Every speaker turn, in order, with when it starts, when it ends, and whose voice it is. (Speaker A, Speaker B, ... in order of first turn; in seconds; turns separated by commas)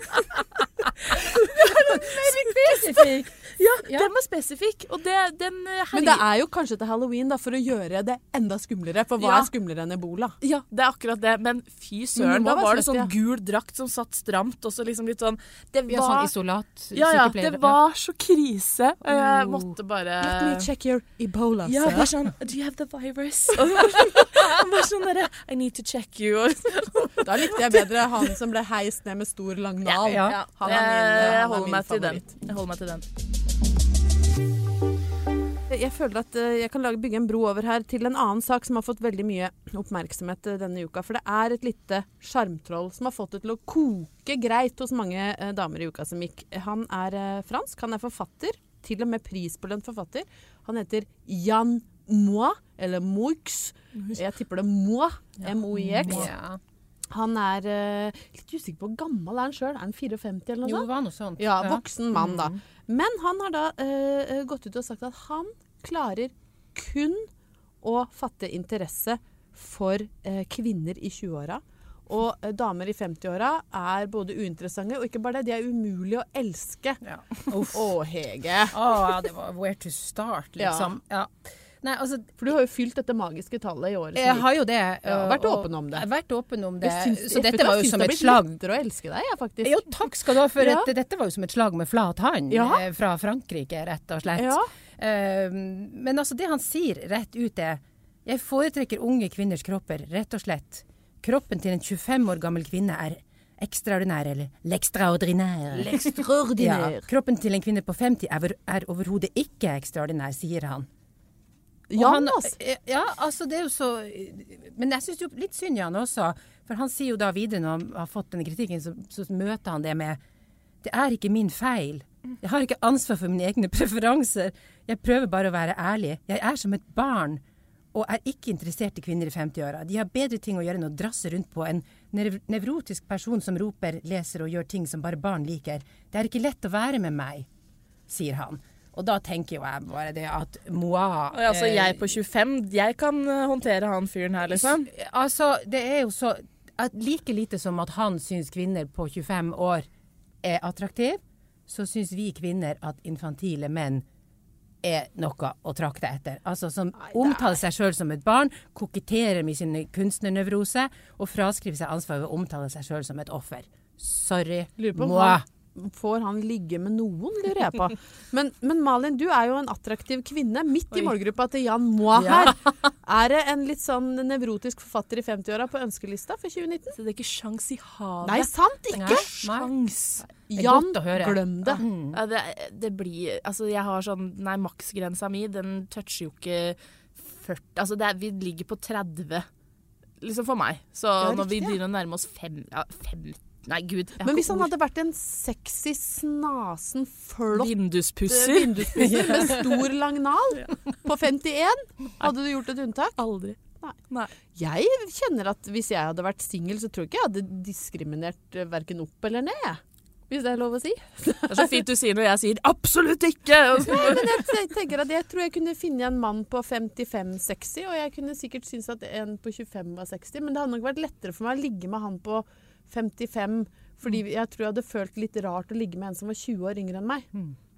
Speaker A: 1.1-3.0, Speaker B: 1.2-3.1, Speaker C: 1.8-3.3, Speaker A: 3.6-6.2, Speaker C: 3.9-4.1, Speaker B: 5.9-10.4, Speaker A: 9.2-9.5, Speaker A: 10.4-16.3, Speaker B: 12.2-13.1, Speaker C: 15.9-17.8, Speaker A: 16.9-20.7, Speaker C: 19.2-19.7, Speaker B: 20.2-22.1, Speaker A: 21.7-28.3, Speaker B: 27.2-32.3, Speaker A: 29.9-33.0, Speaker C: 30.1-30.4, Speaker B: 35.7-56.3, Speaker C: 55.7-56.6, Speaker B: 57.1-60.9, Speaker C: 60.6-62.5, Speaker B: 61.4-67.3, Speaker B: 67.8-79.1, Speaker C: 77.0-78.0, Speaker C: 78.7-82.3, Speaker B: 80.6-80.9, Speaker B: 82.4-84.5, Speaker C: 84.2-88.6, Speaker B: 85.0-86.0, Speaker B: 86.8-90.0, Speaker C: 89.6-110.9, Speaker B: 90.5-90.9, Speaker B: 92.5-92.8, Speaker B: 94.4-94.7, Speaker B: 105.8-107.1, Speaker B: 111.9-112.6, Speaker C: 112.0-120.2, Speaker C: 120.8-127.4, Speaker C: 127.9-137.5, Speaker C: 138.1-142.1, Speaker A: 141.3-144.9, Speaker C: 144.5-149.9, Speaker C: 150.4-154.1, Speaker C: 154.8-165.4, Speaker B: 157.2-157.6, Speaker B: 164.8-177.0, Speaker C: 172.2-172.7, Speaker A: 177.0-180.3, Speaker B: 178.2-179.3, Speaker C: 178.9-179.7, Speaker C: 180.3-182.2, Speaker B: 180.5-181.8, Speaker A: 182.1-189.5, Speaker A: 190.2-194.7, Speaker B: 191.2-191.8, Speaker B: 194.2-197.7, Speaker A: 197.5-199.3, Speaker B: 198.3-204.0, Speaker C: 199.2-199.7, Speaker B: 204.5-211.8, Speaker A: 211.5-214.5, Speaker B: 213.9-227.3